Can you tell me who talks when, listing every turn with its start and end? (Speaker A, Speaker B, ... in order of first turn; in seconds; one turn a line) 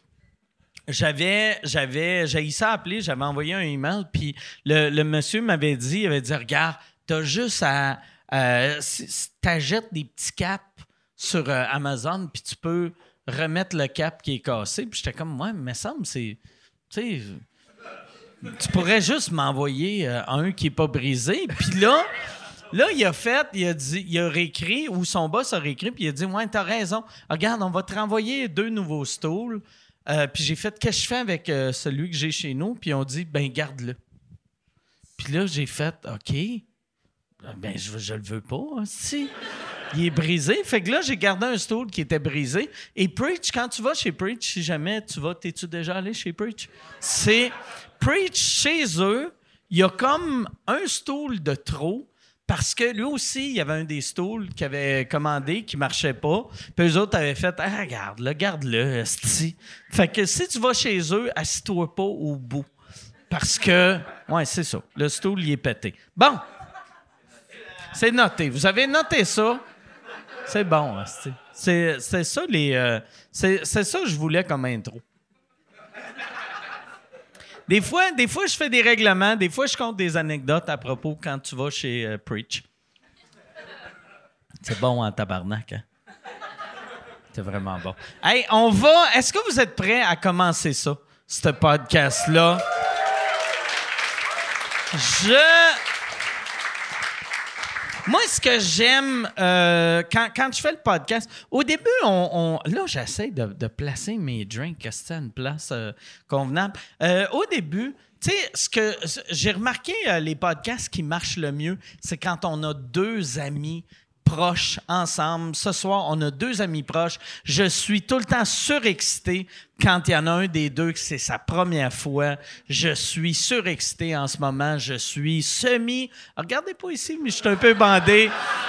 Speaker A: 0.9-16.4
Speaker A: 16.9-17.4
Speaker A: 18.4-22.1
Speaker A: 22.7-34.0
Speaker A: 35.2-36.6
Speaker A: 37.4-39.3
Speaker A: 39.9-62.7
Speaker A: 63.3-66.4
Speaker A: 67.9-69.6
Speaker A: 70.5-75.0
Speaker A: 77.7-82.7
Speaker A: 84.6-85.8
Speaker A: 87.3-92.6
Speaker A: 94.9-95.8
Speaker A: 98.1-128.3